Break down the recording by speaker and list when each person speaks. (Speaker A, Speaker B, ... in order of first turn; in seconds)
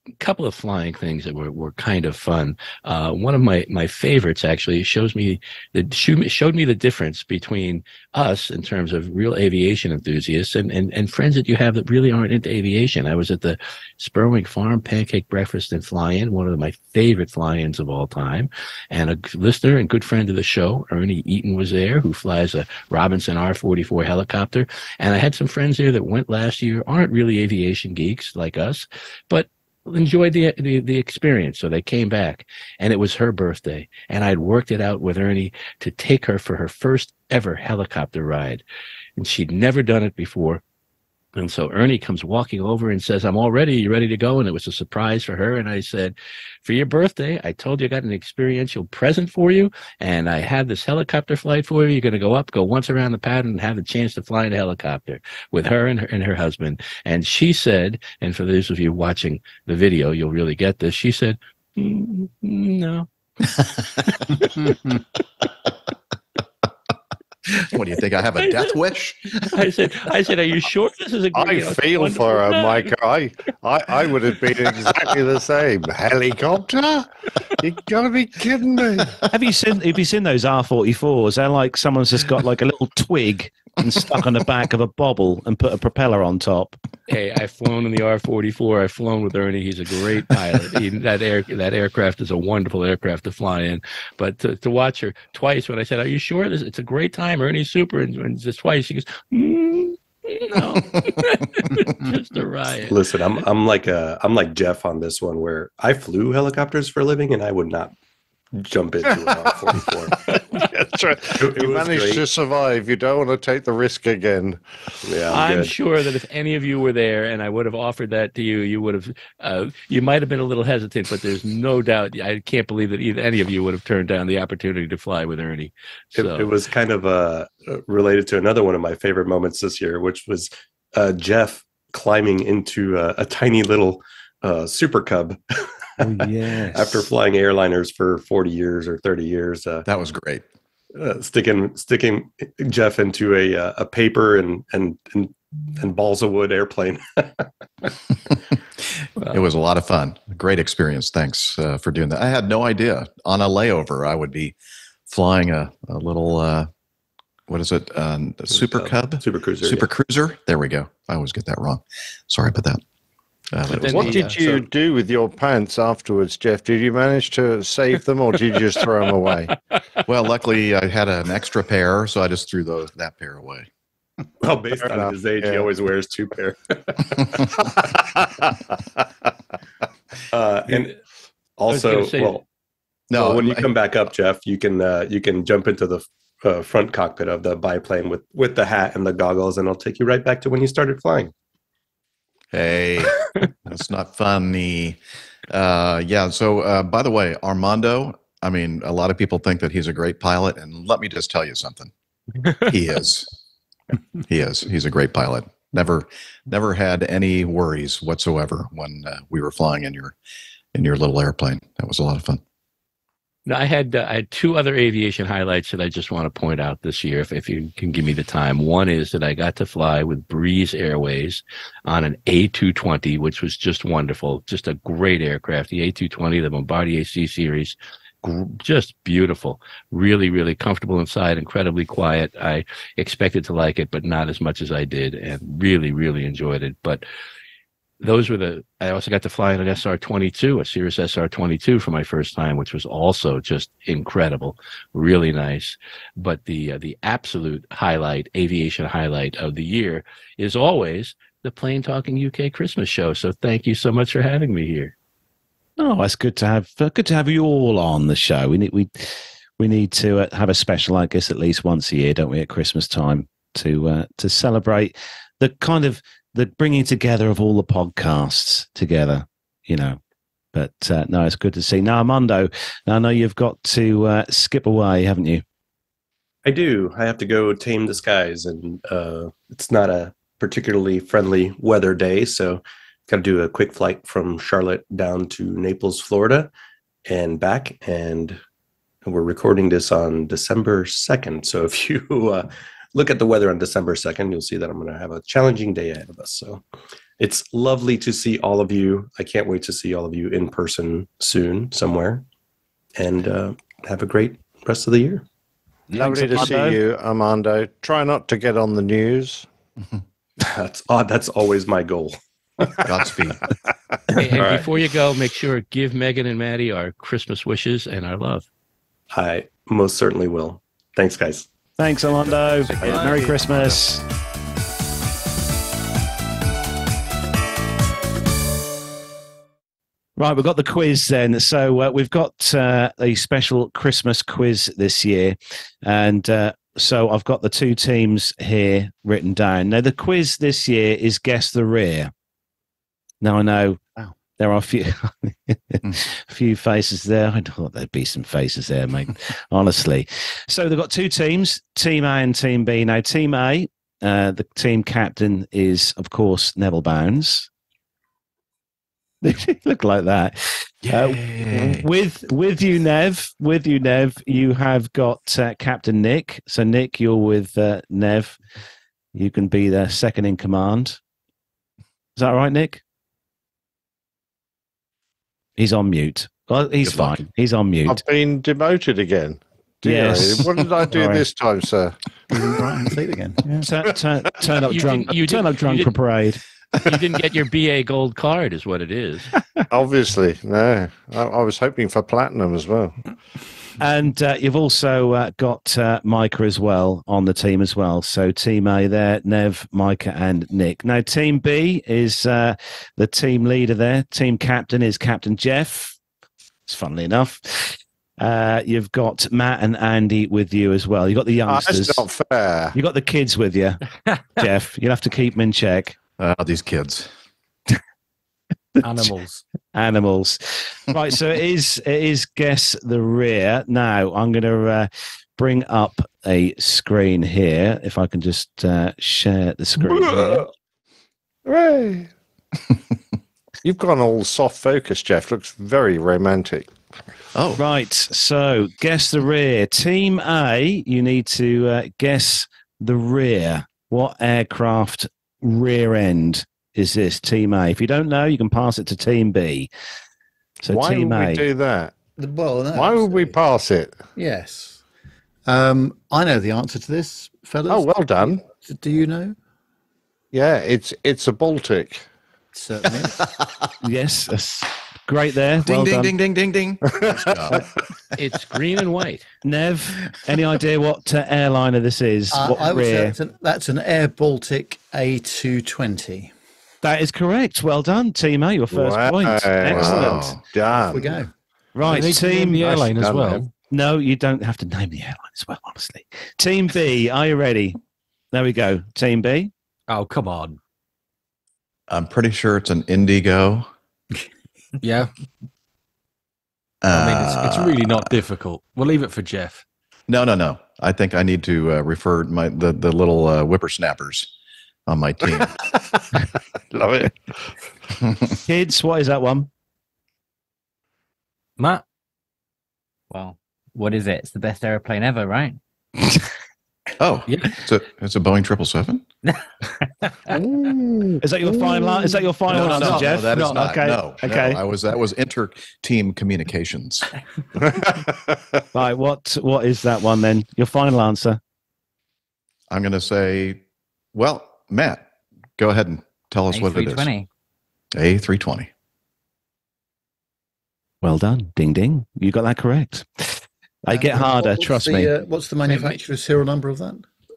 Speaker A: 0.2-38.6, 39.2-40.6, 41.3-63.1, 68.4-68.8, 69.4-72.9, 87.1-103.0, 115.3-126.5, 163.7-164.4, 181.7-182.4, 213.4-237.0, 238.0-254.9, 314.2-318.4, 384.6-385.9, 386.8-389.3, 468.1-469.3, 545.7-546.0
Speaker B: 67.6-69.5, 139.8-140.4, 149.3-154.5, 155.1-156.7, 157.5-162.8, 163.5-164.3, 170.1-173.7, 183.1-183.7, 192.5-201.9, 202.7-203.3, 204.3-210.1, 210.7-212.4, 312.9-313.4, 322.7-323.9, 360.8-361.8, 376.9-377.1, 416.2-417.1, 437.3-437.6, 465.6-467.6, 479.7-480.4, 491.9-493.7, 496.8-498.1, 500.1-504.3, 504.9-505.5, 517.0-519.0, 522.5-527.1, 532.7-533.6, 534.1-535.0, 535.6-537.1, 537.9-538.7
Speaker C: 71.3-79.2, 110.5-114.6, 163.8-169.5, 174.8-175.7, 305.9-309.5, 377.9-381.9, 389.7-393.0, 411.5-412.8, 429.8-430.5, 431.4-432.1, 433.6-436.7, 450.7-451.9, 452.7-454.0, 457.7-458.4, 460.3-462.0, 466.9-467.6, 478.7-481.2, 482.6-483.4, 505.4-506.2, 506.7-507.5, 520.3-522.1, 527.6-528.4
Speaker D: 79.3-86.8, 136.0-137.1, 255.8-270.0, 270.5-275.4, 305.9-306.8, 321.8-324.0, 330.2-342.1, 343.2-343.8, 344.4-357.5, 359.2-368.4, 369.1-371.0, 372.1-372.8, 375.6-378.0, 379.8-381.2, 383.6-386.4, 393.8-406.0, 406.7-412.0, 412.7-413.8, 414.4-415.9, 419.7-430.4, 437.6-449.7, 450.6-451.4, 463.8-466.1, 469.4-473.1, 476.8-480.3, 481.7-482.9, 483.7-487.8, 488.3-489.5, 508.4-509.5, 521.2-524.6, 528.7-531.4, 541.0-545.1
Speaker E: 102.9-107.9, 108.5-110.4, 111.3-112.2, 115.0-115.7, 126.1-135.4, 136.7-139.8, 140.9-147.5, 158.5-159.9, 174.4-177.2, 180.3-181.0, 181.6-182.4, 183.1-191.3, 276.4-286.5, 287.1-288.4, 289.0-296.6, 297.2-302.2, 302.9-305.2, 310.4-312.2, 314.3-314.7, 319.1-321.5, 322.8-323.1
Speaker F: 382.3-383.7, 452.2-453.4, 454.1-454.8, 455.4-459.4, 462.5-463.3, 472.3-476.3, 480.7-481.3, 543.9-547.0
Speaker G: 418.8-419.4, 481.8-483.5, 489.9-490.6, 494.8-495.1, 496.9-499.6, 511.6-511.8, 517.3-517.5
Speaker H: 513.1-515.6, 519.2-520.4, 522.5-523.7, 536.5-537.3